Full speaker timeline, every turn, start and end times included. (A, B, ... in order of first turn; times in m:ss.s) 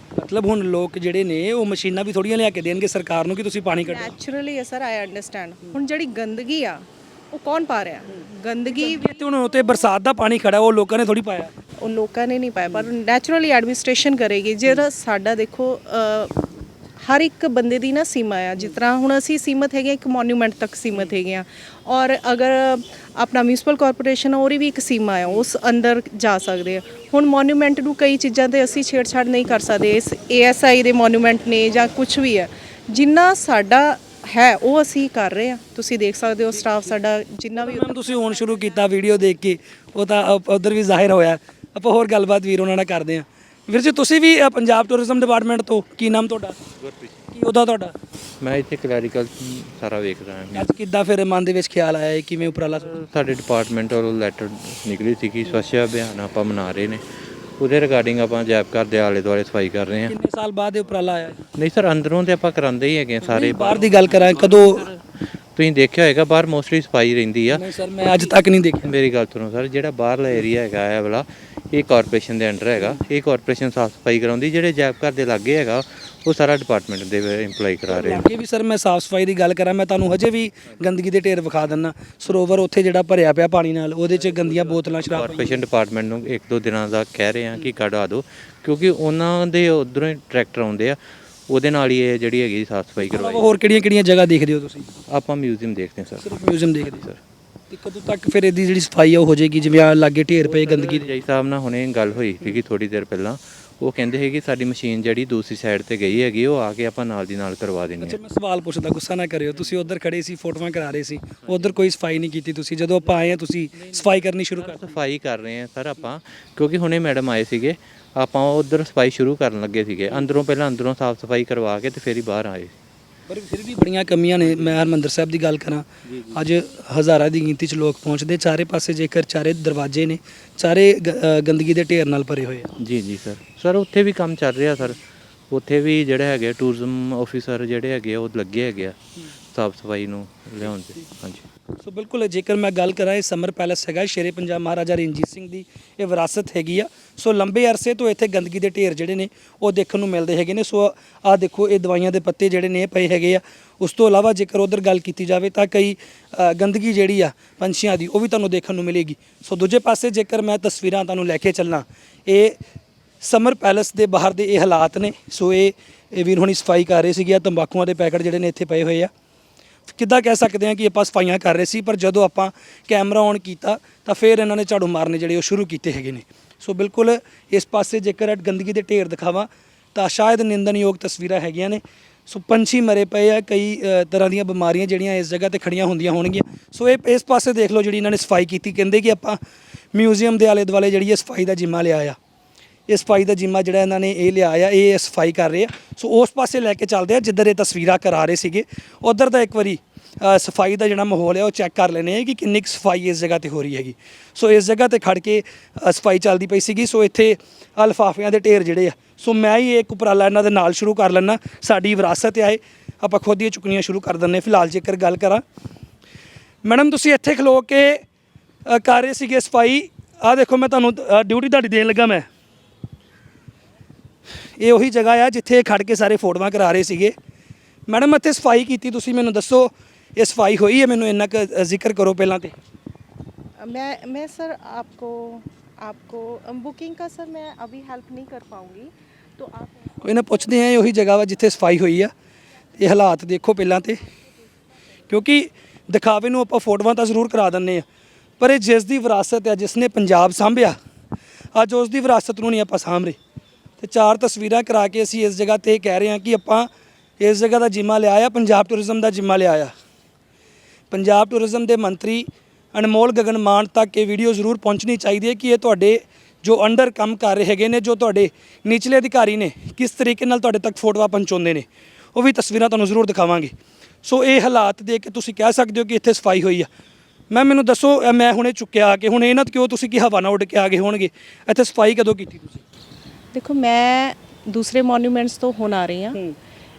0:00.2-0:04.1 A
0:03.8-0:09.9 B
0:08.7-0:11.5 A
0:11.8-0:16.3 B
0:17.0-0:38.9 B
0:37.6-0:46.6 A
0:46.8-0:47.2 C
0:47.3-0:48.0 A
0:48.4-0:50.7 C
0:50.5-0:53.0 A
0:52.8-0:57.0 C
0:57.6-1:00.1 C
1:00.1-1:01.4 A
1:01.6-1:05.0 C
1:03.2-1:04.9 A
1:05.5-1:07.6 C
1:07.5-1:08.9 A
1:08.8-1:18.3 C
1:17.9-1:25.6 A
1:24.8-1:31.0 C
1:31.5-1:33.5 C
1:33.0-1:34.9 A
1:35.1-1:36.3 C
1:36.2-1:37.1 A
1:37.7-1:41.1 A
1:40.4-1:48.2 C
1:48.0-1:55.0 A
1:51.4-1:51.7 C
1:54.5-2:02.7 C
2:03.3-2:12.7 A
2:06.0-2:06.4 C
2:12.8-2:19.0 C
2:19.5-2:21.4 C
2:21.8-2:42.6 A
2:43.2-2:49.1 A
2:49.9-3:09.4 A
3:09.9-3:12.2 A
3:12.9-3:35.4 A
3:36.6-3:38.0 A
3:38.6-3:42.3 A
3:44.6-3:47.1 A
3:47.9-3:52.5 A
3:53.6-4:00.0 B
4:00.0-4:02.1 A
4:02.8-4:04.0 A
4:05.1-4:07.8 A
4:08.4-4:10.8 A
4:11.5-4:13.2 A
4:13.8-4:19.7 A
4:20.9-4:36.7 A
4:37.3-4:42.6 A
4:43.3-4:46.2 B